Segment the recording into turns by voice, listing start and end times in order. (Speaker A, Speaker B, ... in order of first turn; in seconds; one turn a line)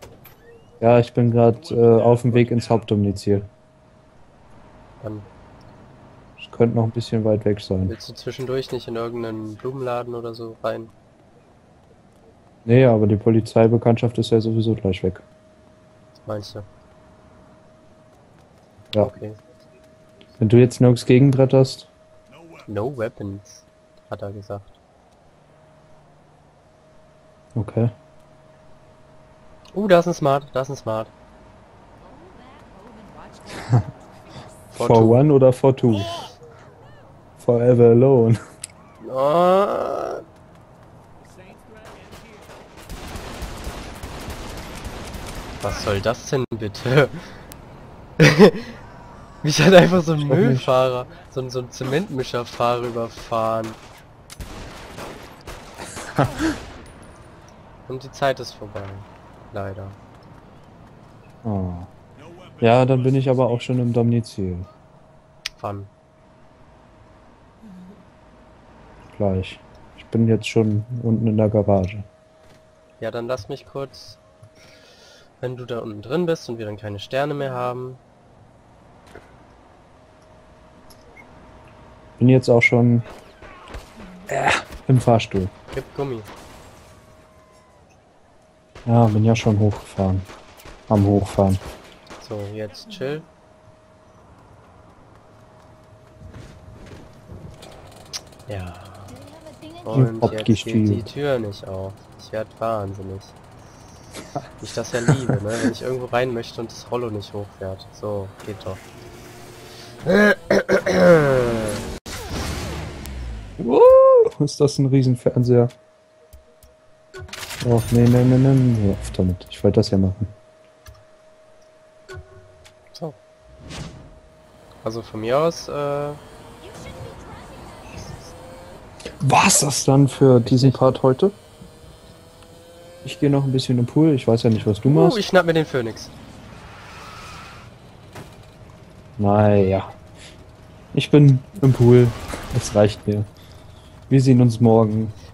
Speaker A: 0.8-3.5
Speaker A: 6.4-7.9
Speaker B: 7.9-10.9
Speaker A: 12.7-15.2
Speaker B: 16.3-16.7
Speaker B: 19.0-19.4
Speaker A: 20.4-21.9
Speaker B: 22.7-24.7
Speaker A: 27.6-27.9
Speaker B: 29.7-31.1
Speaker A: 33.6-33.9
Speaker B: 34.7-35.2
Speaker A: 34.7-36.3
Speaker A: 37.4-38.4
Speaker B: 39.0-40.2
Speaker B: 45.6-47.3
Speaker B: 48.2-48.8
Speaker B: 49.4-53.8
Speaker A: 50.3-50.6
Speaker A: 56.0-56.5
Speaker B: 57.9-60.0
Speaker A: 61.4-61.9
Speaker A: 62.6-64.7
Speaker B: 65.6-65.9
Speaker A: 69.1-72.1
Speaker B: 73.0-74.2
Speaker B: 75.4-78.0
Speaker A: 82.2-83.1
Speaker A: 84.3-85.5
Speaker B: 85.7-86.3
Speaker A: 88.9-90.3
Speaker A: 90.9-91.6
Speaker B: 92.2-93.3
Speaker B: 98.5-99.2
Speaker B: 99.8-103.4
Speaker A: 99.9-101.1
Speaker B: 104.6-108.8
Speaker A: 105.1-105.4
Speaker B: 110.0-111.8
Speaker A: 113.6-115.7
Speaker A: 117.6-120.3
Speaker B: 124.8-126.2
Speaker A: 129.2-131.3
Speaker B: 130.4-131.0
Speaker A: 133.0-135.2
Speaker B: 134.8-136.1
Speaker A: 139.2-140.0
Speaker A: 140.9-143.3
Speaker A: 144.1-145.2